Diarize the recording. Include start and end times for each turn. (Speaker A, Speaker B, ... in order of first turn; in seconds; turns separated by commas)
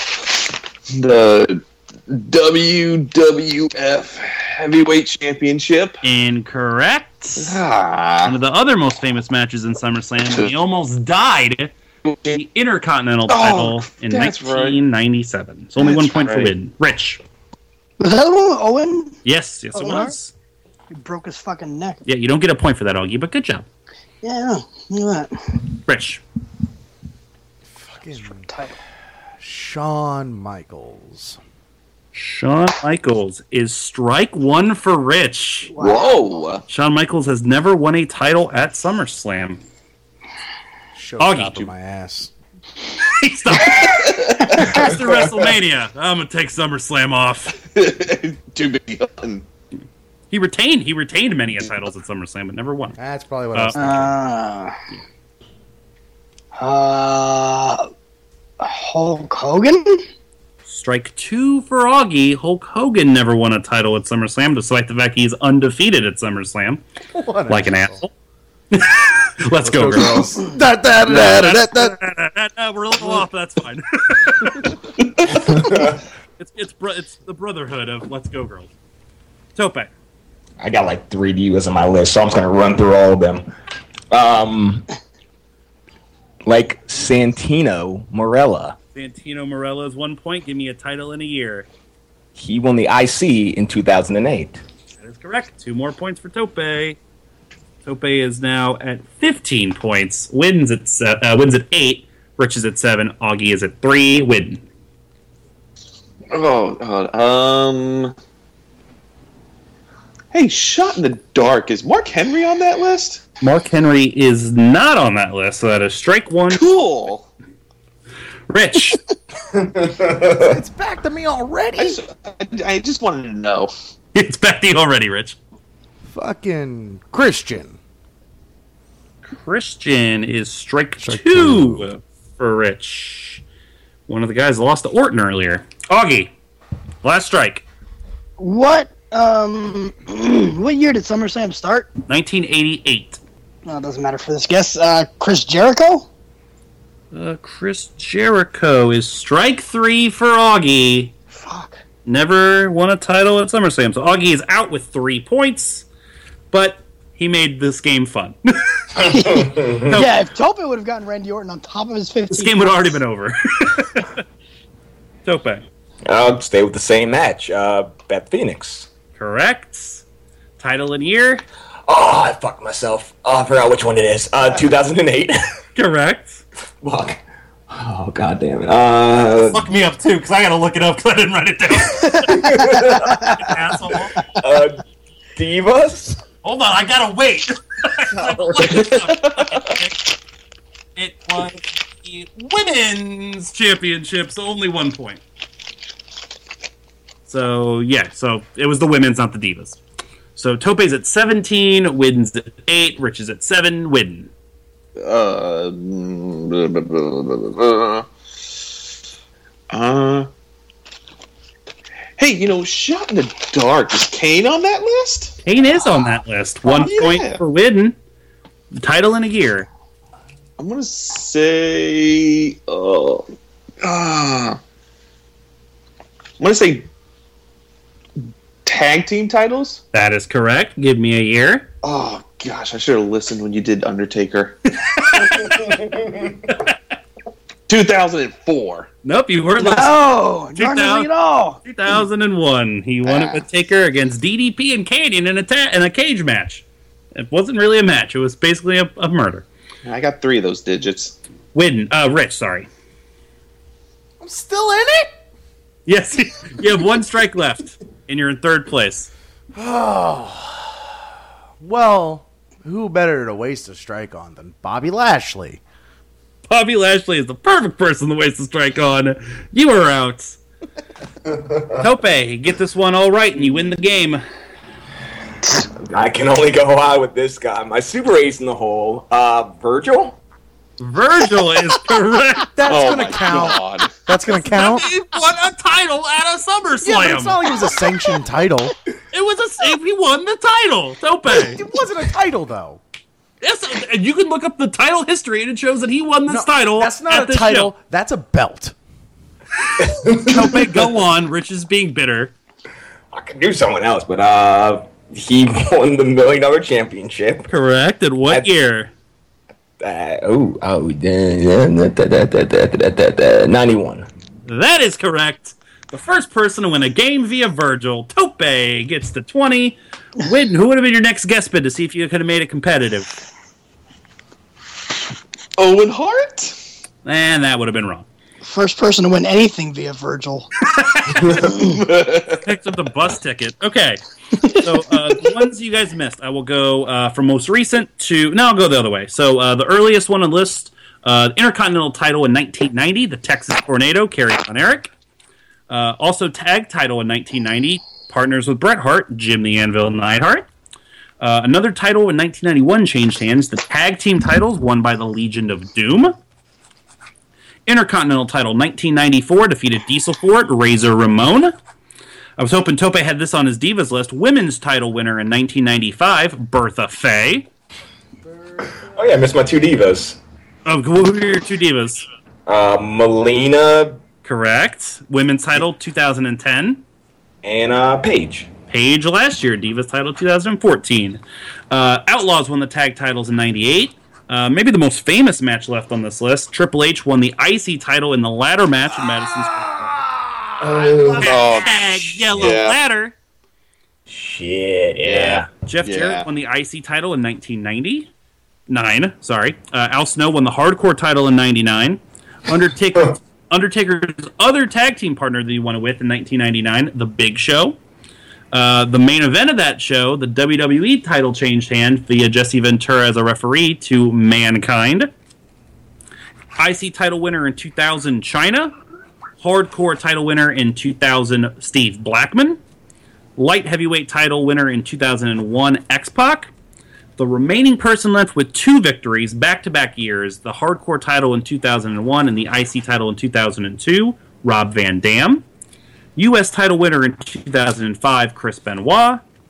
Speaker A: 0.9-6.0, Speaker B: 6.0-7.6, Speaker A: 7.4-8.3, Speaker B: 8.2-11.7, Speaker B: 12.2-17.2, Speaker A: 13.3-14.8, Speaker A: 15.8-16.6, Speaker C: 18.0-19.2, Speaker B: 19.2-20.3, Speaker C: 19.7-20.1, Speaker C: 20.9-22.0, Speaker B: 22.1-23.6, Speaker C: 24.2-25.3, Speaker B: 25.9-26.2, Speaker D: 27.7-28.5, Speaker C: 28.2-28.8, Speaker D: 29.4-31.4, Speaker B: 32.1-35.7, Speaker C: 35.7-36.4, Speaker A: 35.8-36.6, Speaker B: 36.7-39.6, Speaker D: 40.9-42.3, Speaker B: 41.2-41.7, Speaker B: 42.9-47.6, Speaker A: 43.7-44.9, Speaker A: 47.7-49.5, Speaker B: 50.3-53.0, Speaker D: 53.0-54.2, Speaker C: 53.8-54.8, Speaker C: 56.6-57.9, Speaker C: 58.6-60.0, Speaker B: 60.7-66.8, Speaker D: 67.1-68.0, Speaker B: 67.5-68.1, Speaker B: 68.7-70.3, Speaker D: 69.6-72.0, Speaker B: 71.1-74.7, Speaker E: 75.5-76.0, Speaker B: 76.4-78.7, Speaker B: 79.5-79.9, Speaker E: 80.6-83.5, Speaker E: 84.1-84.9, Speaker E: 86.5-88.8, Speaker B: 89.0-91.7, Speaker E: 92.4-94.6, Speaker B: 95.0-97.0, Speaker B: 97.8-104.6, Speaker A: 106.3-108.2, Speaker A: 110.3-113.2, Speaker B: 113.4-116.6, Speaker A: 116.5-117.3, Speaker B: 118.5-119.0, Speaker E: 119.5-120.5, Speaker D: 120.4-122.0, Speaker A: 121.8-123.7, Speaker B: 124.2-125.4, Speaker D: 126.1-127.8, Speaker B: 129.2-133.4, Speaker D: 131.0-131.9, Speaker B: 134.1-136.3, Speaker B: 137.0-137.7, Speaker C: 138.4-141.9, Speaker B: 142.1-143.2, Speaker C: 143.7-146.1, Speaker B: 147.1-151.1, Speaker C: 151.3-151.8, Speaker B: 152.1-155.9, Speaker B: 156.5-159.0, Speaker E: 159.0-160.0, Speaker C: 159.1-163.0, Speaker B: 159.8-160.2, Speaker B: 162.3-164.2, Speaker B: 165.2-165.6, Speaker E: 166.1-168.9, Speaker B: 169.2-170.0, Speaker B: 170.6-171.4, Speaker E: 171.9-175.4, Speaker B: 175.8-176.4, Speaker E: 176.8-179.7, Speaker B: 179.4-182.3, Speaker E: 182.2-183.2, Speaker C: 182.7-183.4, Speaker B: 183.0-184.2, Speaker E: 184.4-184.8, Speaker E: 185.4-186.2, Speaker B: 186.4-190.0, Speaker E: 188.2-188.8, Speaker A: 188.7-189.5, Speaker B: 191.0-195.2, Speaker B: 197.3-199.8, Speaker B: 200.4-204.3, Speaker A: 205.0-208.1, Speaker A: 209.7-210.3, Speaker A: 212.2-215.4, Speaker B: 215.4-218.0, Speaker A: 216.6-217.4, Speaker B: 218.7-219.7, Speaker A: 220.6-223.3, Speaker A: 223.8-224.6, Speaker A: 226.4-226.9, Speaker A: 228.7-229.8, Speaker B: 229.9-231.7, Speaker A: 231.8-234.6, Speaker B: 234.9-235.6, Speaker E: 235.3-236.4, Speaker A: 237.7-238.9, Speaker B: 239.1-240.0, Speaker C: 239.7-241.6, Speaker B: 240.6-241.1, Speaker B: 241.6-249.5, Speaker A: 243.1-243.4, Speaker A: 249.9-251.2, Speaker B: 251.5-252.7, Speaker D: 254.2-255.1, Speaker B: 255.9-259.1, Speaker D: 259.6-260.9, Speaker D: 261.6-265.6, Speaker B: 266.5-270.4, Speaker B: 271.8-274.2, Speaker E: 275.9-280.2, Speaker B: 280.8-282.5, Speaker D: 282.6-284.9, Speaker A: 282.7-283.9, Speaker B: 284.3-287.4, Speaker D: 286.8-288.7, Speaker B: 289.1-291.6, Speaker D: 291.3-292.8, Speaker B: 293.4-297.7, Speaker D: 296.3-298.8, Speaker E: 299.8-300.9, Speaker B: 300.2-302.3, Speaker E: 303.1-307.5, Speaker B: 307.5-308.9, Speaker E: 309.8-314.1, Speaker B: 314.5-323.1, Speaker A: 325.6-326.6, Speaker B: 327.1-328.1, Speaker C: 328.4-330.5, Speaker B: 330.7-331.4, Speaker A: 331.2-332.4, Speaker C: 331.4-331.8, Speaker B: 332.4-344.9, Speaker B: 345.7-350.5, Speaker B: 351.2-356.2, Speaker B: 357.7-361.5, Speaker B: 362.4-367.5, Speaker E: 368.8-370.2, Speaker B: 370.7-372.0, Speaker E: 372.5-374.0, Speaker B: 374.2-376.8, Speaker E: 377.4-378.5, Speaker B: 378.7-390.0, Speaker E: 390.6-391.4, Speaker A: 391.1-392.8, Speaker B: 391.2-393.1, Speaker E: 394.1-395.5, Speaker A: 395.0-396.3, Speaker B: 395.7-398.1, Speaker B: 398.7-407.8, Speaker B: 408.5-415.1, Speaker B: 416.6-418.7, Speaker B: 419.4-422.6, Speaker B: 423.4-426.5, Speaker B: 427.2-435.5, Speaker B: 436.2-439.2